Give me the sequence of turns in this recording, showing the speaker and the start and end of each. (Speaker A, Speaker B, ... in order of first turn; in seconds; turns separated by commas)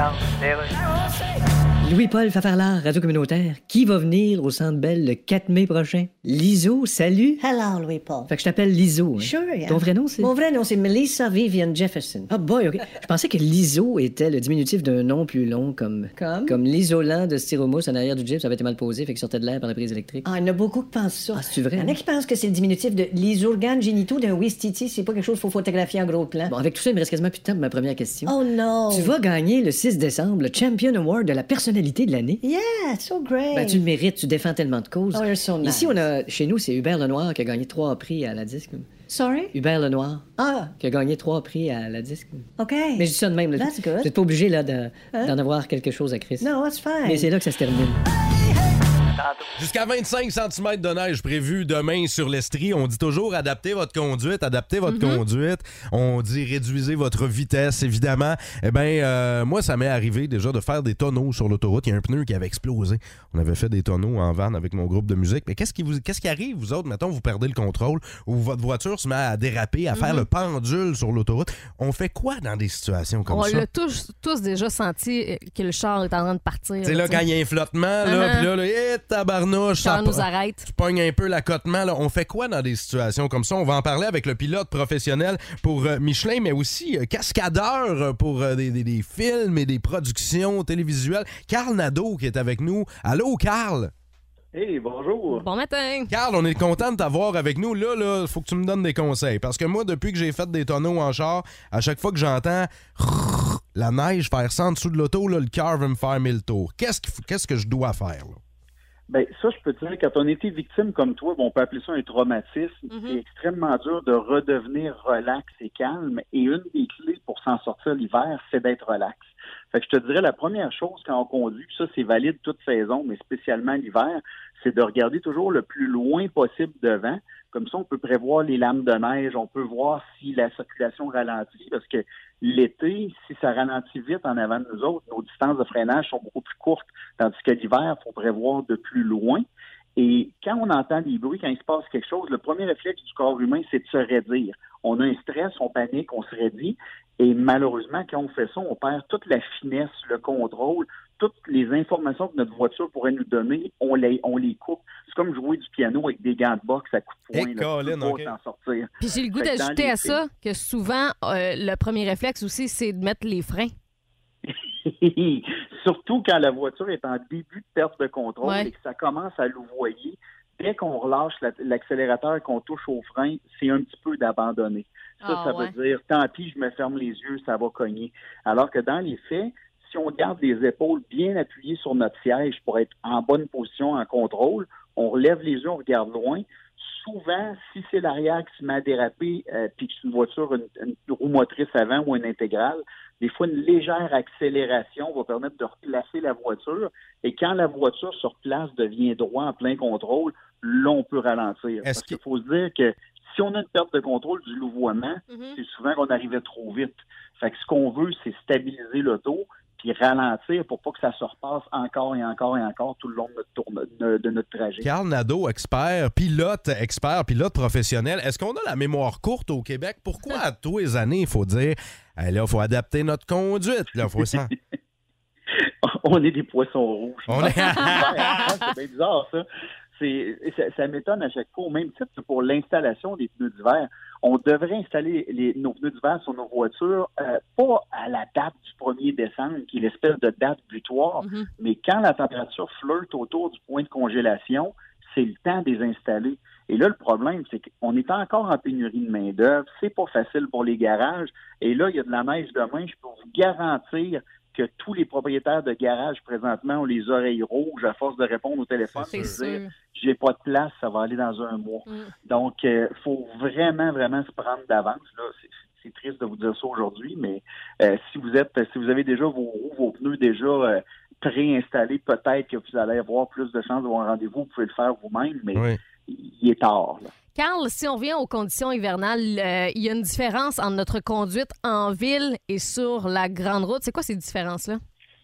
Speaker A: 1.8-7.4, Speaker B: 7.5-8.3, Speaker A: 8.3-10.4, Speaker B: 9.2-10.3, Speaker A: 12.0-20.4, Speaker A: 21.3-22.0, Speaker B: 21.4-21.9, Speaker A: 26.4-32.4, Speaker B: 28.3-29.1, Speaker B: 32.4-33.8, Speaker A: 33.5-46.5, Speaker B: 35.1-36.0, Speaker B: 42.6-43.1, Speaker B: 43.6-44.1, Speaker B: 46.4-47.3, Speaker A: 47.0-48.0, Speaker C: 49.6-73.7, Speaker D: 54.9-55.2, Speaker D: 69.9-70.3, Speaker D: 73.3-77.2, Speaker C: 76.8-93.9, Speaker D: 78.0-78.5, Speaker D: 79.8-80.7, Speaker E: 94.5-95.5, Speaker D: 95.3-96.1, Speaker C: 96.1-108.4, Speaker E: 109.1-139.4, Speaker D: 112.9-113.2, Speaker E: 140.0-160.2, Speaker C: 157.3-158.3, Speaker D: 159.0-163.7, Speaker E: 164.4-214.9, Speaker D: 168.4-168.7, Speaker D: 175.2-175.7, Speaker C: 201.8-202.2, Speaker D: 205.3-205.6, Speaker C: 214.8-224.5, Speaker E: 225.8-229.4, Speaker C: 227.3-228.2, Speaker D: 227.4-228.4, Speaker E: 230.0-277.1, Speaker D: 241.2-241.5, Speaker C: 258.9-259.4, Speaker D: 259.1-259.7, Speaker D: 261.9-262.1, Speaker C: 275.5-275.8, Speaker D: 277.4-284.8